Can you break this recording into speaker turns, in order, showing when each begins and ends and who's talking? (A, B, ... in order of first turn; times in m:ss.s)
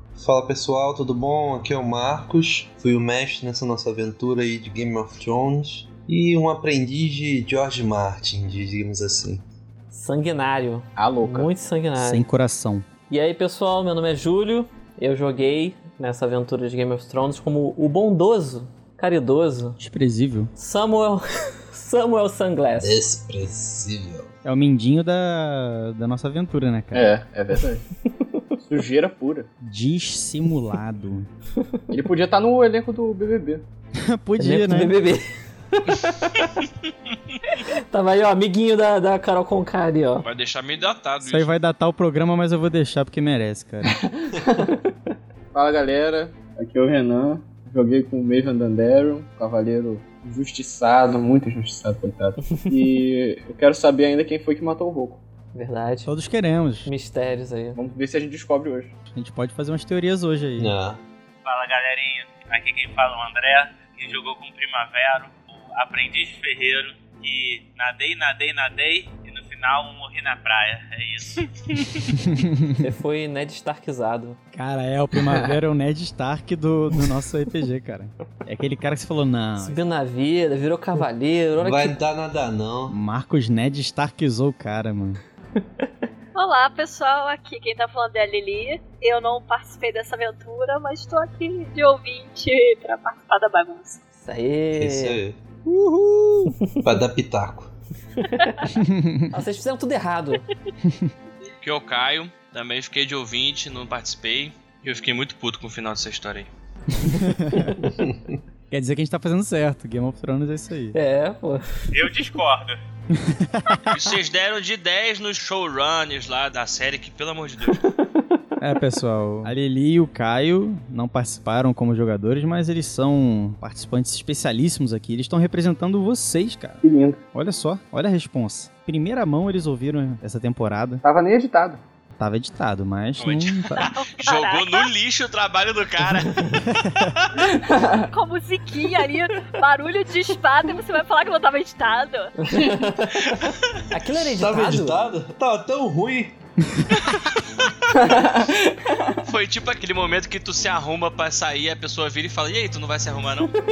0:00.2-0:09.4 A
0:09.9-0:12.2 B
0:11.0-0:11.5 C
0:12.0-0:12.9 D
0:13.1-0:19.8 B
0:19.8-0:20.5 D
0:20.6-0:23.0 B
0:22.8-0:24.3 A
0:24.4-0:27.2 D
0:26.9-0:27.8 C
0:28.1-0:28.4 B
0:28.6-0:29.5 C
0:29.6-0:31.3 D
0:31.9-0:33.6 C
0:33.9-0:34.9 D
0:34.4-0:36.5 B
0:37.5-0:40.2 B
0:40.2-0:41.5 E
0:41.2-0:44.0 D
0:44.4-0:44.7 C
0:45.5-0:55.2 C
0:55.5-0:56.1 B
0:56.0-0:56.9 D
0:56.8-0:57.8 B
0:57.7-0:58.9 C
0:59.1-1:00.7 D
1:00.6-1:01.0 A
1:01.4-1:11.5 F
1:12.1-1:12.8 D
1:12.8-1:14.4 B
1:14.5-1:19.8 D
1:19.6-1:22.0 B
1:21.6-1:22.9 A
1:22.9-1:25.2 D
1:26.3-1:34.0 G
1:34.2-1:35.2 B
1:34.7-1:35.4 A
1:35.6-1:36.6 D
1:36.8-1:37.7 A
1:38.2-1:38.6 B
1:38.7-1:39.3 D
1:39.3-1:40.4 B
1:40.8-1:41.1 D
1:41.6-1:46.5 E
1:46.9-1:47.8 D
1:48.0-1:48.3 A
1:48.7-1:51.0 D
1:50.9-1:51.9 B
1:51.9-1:52.8 F
1:53.1-1:54.0 D
1:53.9-1:57.8 E
1:58.6-2:06.8 D
2:06.8-2:07.2 C
2:07.3-2:11.0 D
2:11.0-2:11.8 C
2:12.2-2:13.9 D
2:13.2-2:17.3 E
2:13.9-2:14.9 G
2:17.6-2:18.0 C
2:18.1-2:22.3 G
2:22.4-2:25.0 B
2:24.3-2:26.4 A
2:26.7-2:27.1 D
2:27.9-2:29.0 C
2:29.2-2:33.5 E